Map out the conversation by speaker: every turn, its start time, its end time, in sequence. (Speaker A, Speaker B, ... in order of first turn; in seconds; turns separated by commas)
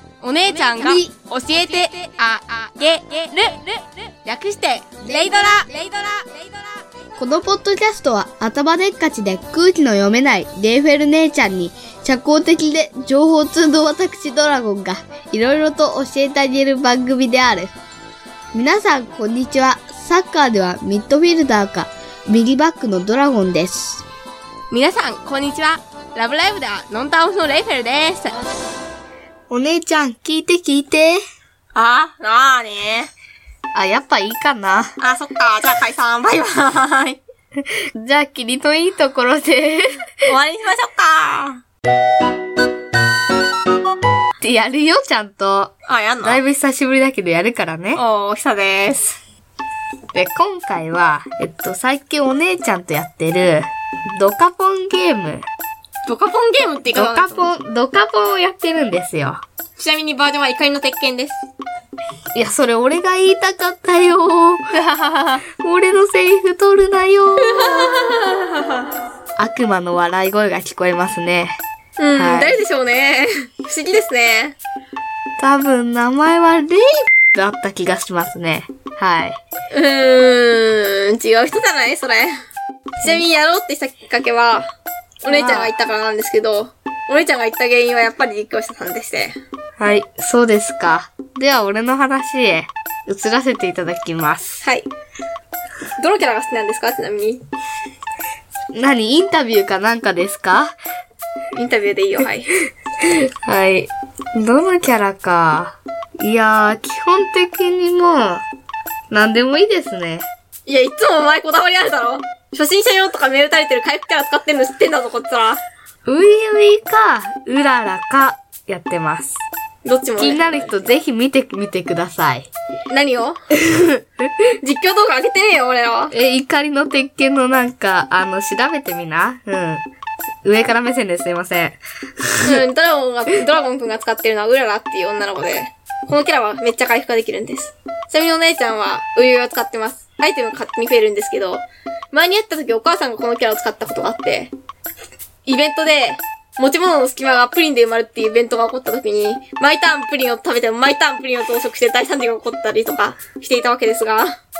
Speaker A: 0.2-6.7, Speaker B: 0.8-1.1, Speaker B: 7.2-17.7, Speaker B: 18.5-24.0, Speaker A: 24.7-28.4, Speaker B: 29.5-31.2, Speaker A: 31.7-33.1, Speaker B: 33.7-34.9, Speaker A: 35.0-37.2, Speaker B: 37.6-40.3, Speaker A: 40.2-41.6, Speaker B: 44.4-48.0, Speaker A: 45.9-46.4, Speaker A: 47.9-49.2, Speaker B: 50.1-55.4, Speaker A: 56.0-57.5, Speaker B: 56.9-59.4, Speaker A: 59.8-61.4, Speaker B: 62.3-64.6, Speaker A: 64.7-65.4, Speaker B: 65.6-68.2, Speaker A: 67.5-68.8, Speaker B: 69.4-71.5, Speaker A: 72.0-74.5, Speaker B: 72.1-72.6, Speaker B: 75.4-79.4, Speaker A: 79.7-82.3, Speaker A: 83.0-84.7, Speaker A: 85.2-89.3, Speaker B: 85.2-85.7, Speaker B: 89.8-94.6, Speaker A: 94.6-94.9, Speaker A: 96.0-97.4, Speaker B: 98.7-100.7, Speaker A: 101.5-102.6, Speaker B: 103.0-108.4, Speaker B: 109.1-110.3, Speaker A: 110.7-115.6, Speaker B: 116.0-119.4, Speaker A: 119.8-120.9, Speaker B: 120.2-122.5, Speaker A: 122.9-123.4, Speaker A: 124.6-126.1, Speaker B: 126.1-129.8, Speaker B: 130.4-132.6, Speaker A: 132.4-144.5, Speaker A: 145.4-154.3